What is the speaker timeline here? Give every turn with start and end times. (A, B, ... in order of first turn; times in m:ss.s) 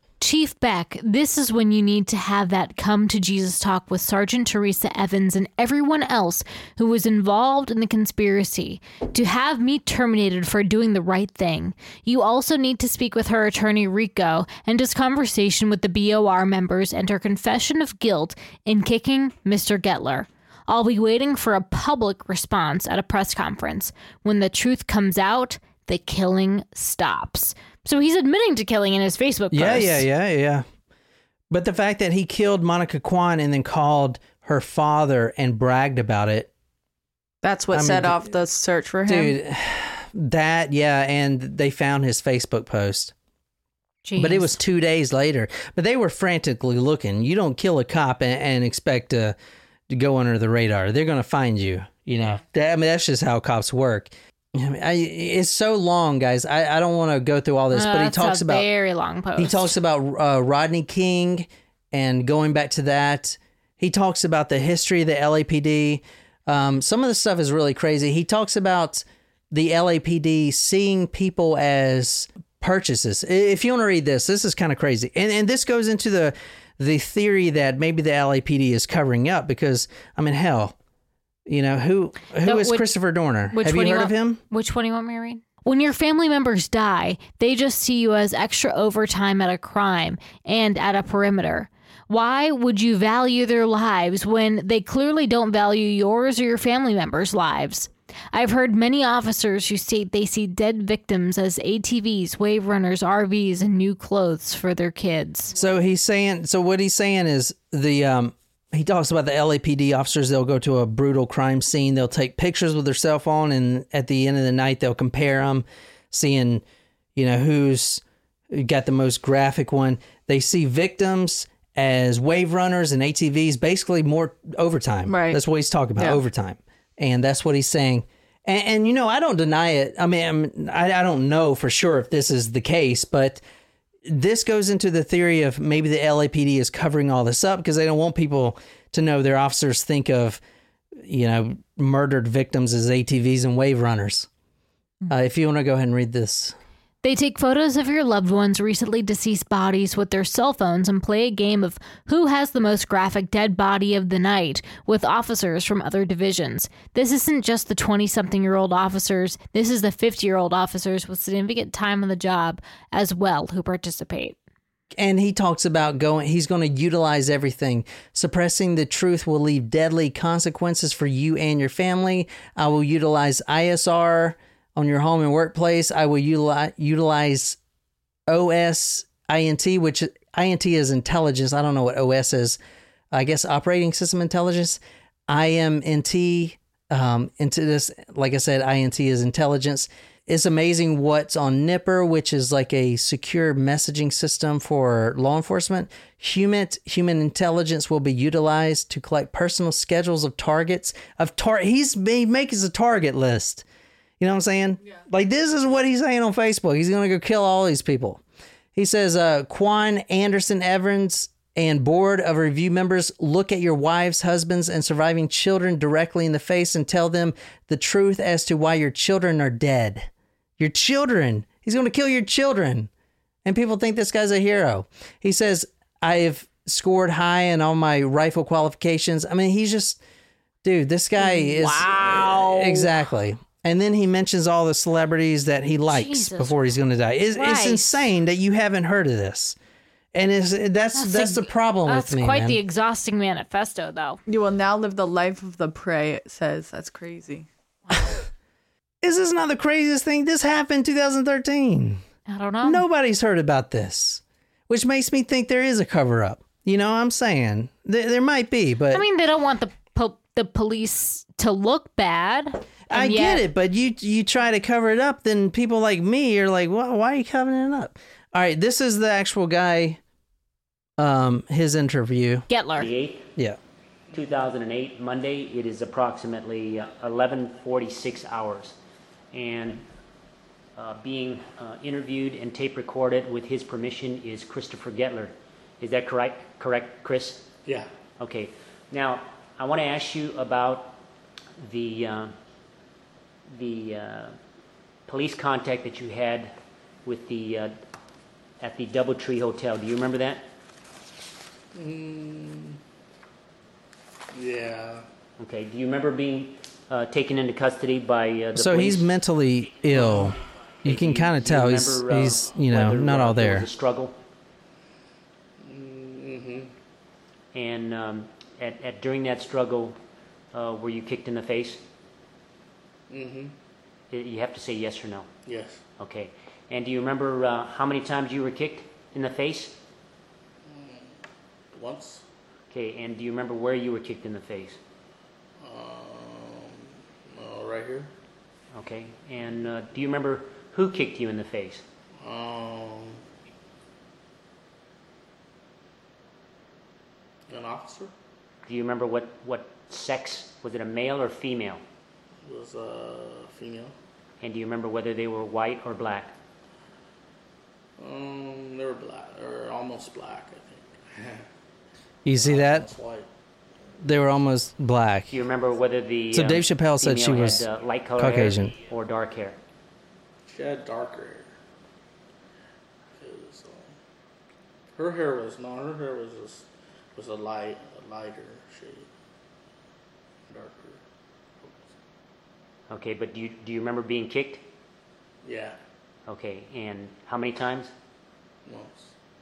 0:00.2-0:30.0 A
0:29.5-0:30.6 B
0:31.5-0:36.5 B
0:37.4-0:39.4 C
0:37.7-0:38.3 B
0:39.1-0:43.1 B
0:44.0-0:44.6 A
0:44.2-0:49.4 B
0:49.9-0:58.7 B
0:57.7-0:59.7 A
0:59.4-1:20.8 B
1:21.5-1:24.4 B
1:22.5-1:22.9 A
1:23.5-1:45.5 A
1:45.6-1:56.6 B
1:57.2-2:13.4 B
2:05.1-2:05.4 C
2:14.1-2:20.4 B
2:21.0-2:24.3 B
2:25.1-2:26.6 B
2:27.0-2:44.4 A
2:45.0-2:57.6 B
2:58.3-3:02.6 B
3:03.1-3:23.6 B
3:24.2-3:28.2 B
3:28.8-3:42.9 B
3:43.4-3:50.0 B
3:50.6-3:59.6 B
3:51.2-3:52.9 A
3:55.9-3:56.5 A
3:57.4-3:58.1 A
4:00.1-4:02.6 B
4:01.0-4:04.2 A
4:04.3-4:07.5 C
4:09.0-4:12.0 B
4:12.3-4:12.8 A
4:12.6-4:19.0 B
4:18.9-4:23.4 A
4:22.9-4:30.0 B
4:31.0-4:32.5 B
4:32.5-4:32.9 A
4:32.8-4:33.3 D
4:34.1-4:38.8 D
4:39.3-4:39.8 D
4:40.8-4:47.5 D
4:48.2-4:51.0 D
4:51.6-4:52.4 D
4:53.5-4:54.4 D
4:55.1-4:57.8 D
4:58.6-5:00.5 D
5:01.7-5:02.8 E
5:04.3-5:05.0 E
5:05.4-5:09.1 D
5:08.5-5:13.7 B
5:10.0-5:10.2 D
5:10.8-5:14.2 D
5:15.6-5:16.7 E
5:17.5-5:20.0 D
5:20.5-5:21.8 D
5:23.1-5:23.5 E
5:24.1-5:25.3 D
5:25.5-5:25.8 E
5:26.0-5:29.8 D
5:30.6-5:31.2 E
5:31.7-5:32.2 E
5:32.7-5:34.8 D
5:35.6-5:38.1 E
5:38.7-5:41.8 D
5:42.2-5:43.2 E
5:47.5-5:48.1 E
5:48.7-5:51.8 D
5:52.4-5:53.9 E
5:54.4-5:56.4 D
5:58.0-6:01.5 E
6:02.2-6:02.9 B
6:02.3-6:03.3 E
6:04.0-6:05.4 B
6:05.3-6:09.6 D
6:06.3-6:07.7 B
6:08.2-6:08.7 B
6:10.5-6:11.5 E
6:13.2-6:14.0 E
6:15.0-6:19.1 E
6:20.5-6:21.0 E
6:21.6-6:21.9 E
6:22.9-6:24.7 D
6:25.4-6:25.8 E
6:26.3-6:27.9 D
6:28.6-6:29.1 E